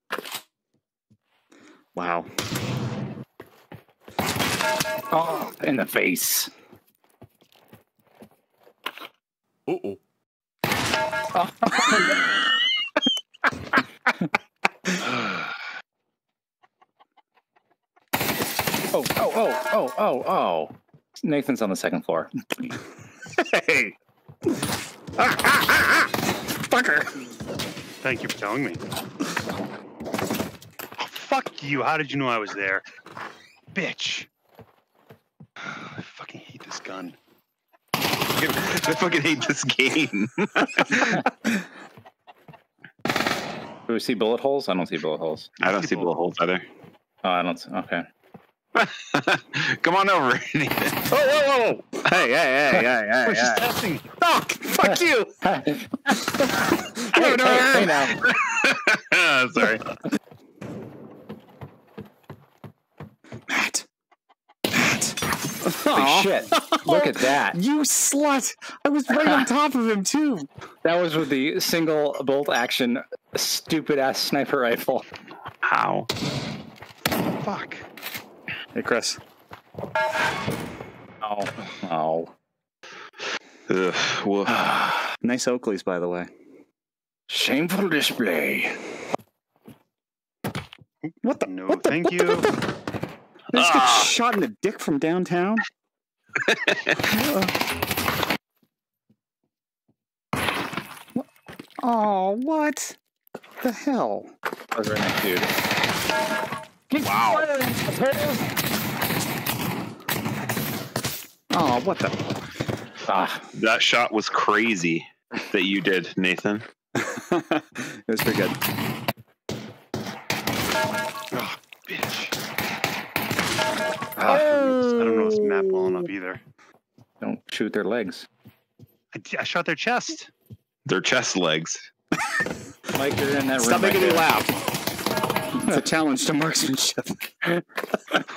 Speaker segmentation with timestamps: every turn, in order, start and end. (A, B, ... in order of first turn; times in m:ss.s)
0:02.0-0:02.3 A
0:05.1-0:06.5 B
0:09.7-0:10.0 A
0:11.4-0:12.3 B
0:18.9-0:22.3 B
0:23.4-0:24.0 A
0:25.2-0:26.1 A
0:26.7-0:27.1 A
0:28.0-0:28.8 C
0:31.0-0:32.9 C
0:33.7-0:34.3 C
0:36.0-0:37.2 C
0:38.4-0:41.2 D
0:43.9-0:45.5 B
0:45.6-0:46.2 C
0:45.6-0:46.7 D
0:47.2-0:48.0 B
0:48.8-0:51.0 D
0:51.1-0:55.3 A
0:53.2-0:54.0 C
0:54.8-0:56.2 B
0:57.0-0:58.2 B
0:57.1-0:57.9 A
0:57.7-0:59.8 D
1:03.5-1:03.9 A
1:04.7-1:10.5 A
1:05.9-1:07.6 B
1:10.8-1:15.0 B
1:15.7-1:16.1 D
1:17.4-1:17.9 C
1:18.7-1:19.2 A
1:21.2-1:22.3 B
1:23.7-1:24.7 D
1:24.5-1:25.1 B
1:25.2-1:26.3 A
1:27.3-1:28.7 B
1:31.0-1:32.5 C
1:31.2-1:32.6 A
1:33.5-1:35.6 A
1:33.6-1:34.1 D
1:36.5-1:36.9 D
1:37.0-1:37.5 A
1:41.8-1:43.0 A
1:43.6-1:44.3 A
1:44.8-1:45.5 B
1:46.9-1:48.4 B
1:47.0-1:47.5 A
1:51.5-1:52.2 A
1:53.1-1:53.4 B
1:53.5-1:56.7 D
1:57.0-1:58.6 A
2:01.3-2:02.3 C
2:04.2-2:06.1 A
2:04.2-2:06.4 C
2:07.2-2:08.3 B
2:09.1-2:10.3 C
2:10.9-2:11.9 D
2:12.9-2:14.3 B
2:13.6-2:14.6 A
2:15.6-2:17.5 A